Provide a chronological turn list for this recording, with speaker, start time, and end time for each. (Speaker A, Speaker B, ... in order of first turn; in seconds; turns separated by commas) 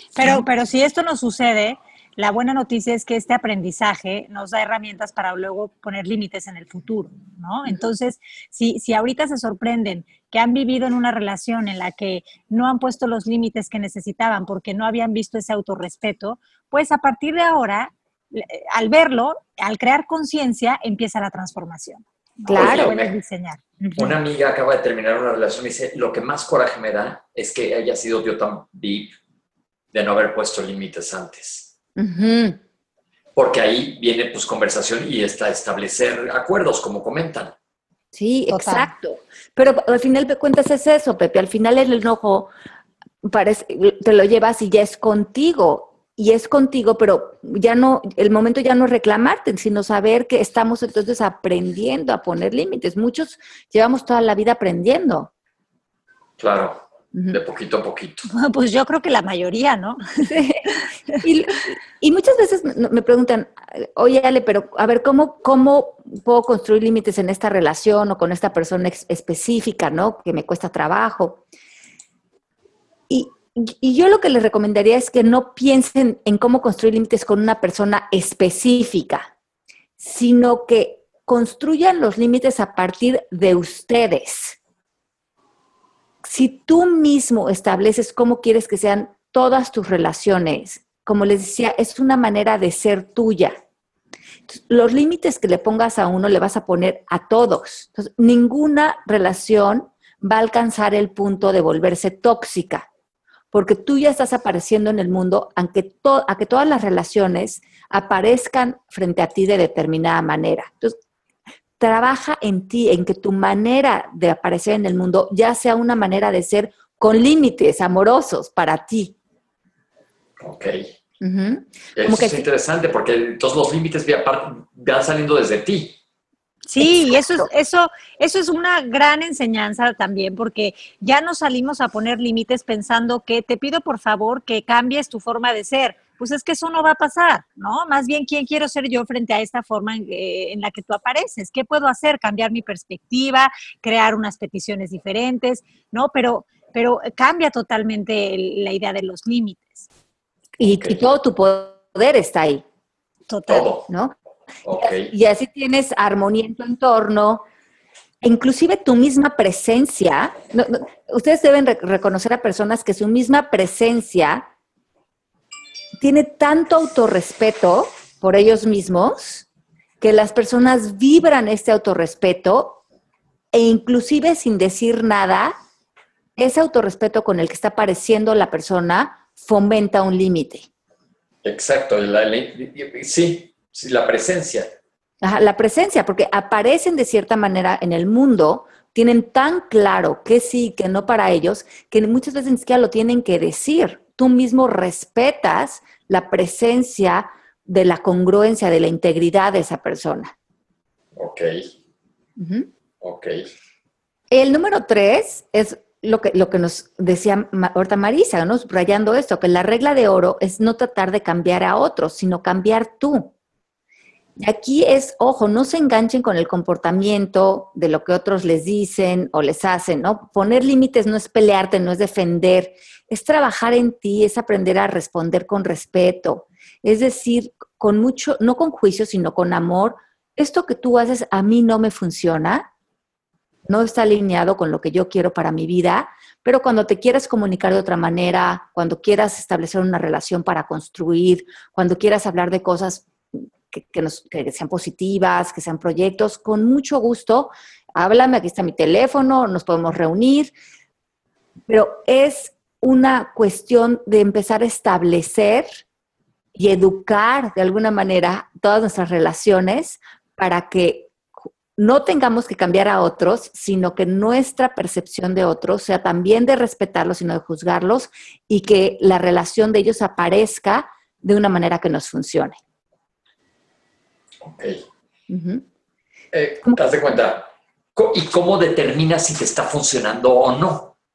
Speaker A: 0.1-24.1, Speaker B: 22.4-22.9, Speaker C: 22.6-23.1, Speaker C: 24.0-29.1, Speaker C: 29.9-31.7, Speaker B: 32.0-32.6, Speaker C: 33.3-37.5, Speaker B: 38.1-42.5, Speaker A: 38.5-38.9, Speaker B: 43.2-55.3, Speaker C: 56.4-58.3, Speaker B: 57.1-57.4, Speaker A: 58.3-60.2, Speaker B: 60.2-71.4, Speaker B: 73.1-79.3, Speaker B: 80.0-84.6, Speaker B: 86.2-93.5, Speaker B: 94.5-102.9, Speaker B: 103.5-110.9, Speaker B: 111.8-119.1, Speaker C: 120.4-120.9, Speaker B: 121.2-122.5, Speaker C: 122.0-126.0, Speaker A: 126.7-149.9, Speaker B: 126.8-127.5, Speaker B: 150.6-152.6, Speaker C: 150.6-151.0, Speaker A: 153.3-153.7, Speaker C: 153.5-153.9, Speaker B: 153.9-154.1, Speaker C: 154.6-155.1, Speaker B: 154.8-157.4, Speaker B: 158.2-164.4, Speaker B: 166.0-169.4, Speaker B: 170.0-172.8, Speaker B: 173.5-175.5, Speaker B: 176.4-180.7, Speaker C: 181.4-184.7, Speaker B: 185.2-200.3, Speaker C: 201.2-201.7, Speaker B: 202.4-202.7, Speaker C: 203.0-203.5, Speaker B: 204.3-213.3, Speaker B: 214.4-232.7, Speaker B: 233.7-250.5, Speaker B: 251.7-255.8, Speaker B: 256.5-261.1, Speaker B: 261.8-272.6, Speaker C: 274.4-274.8, Speaker B: 275.3-275.6, Speaker C: 276.3-280.9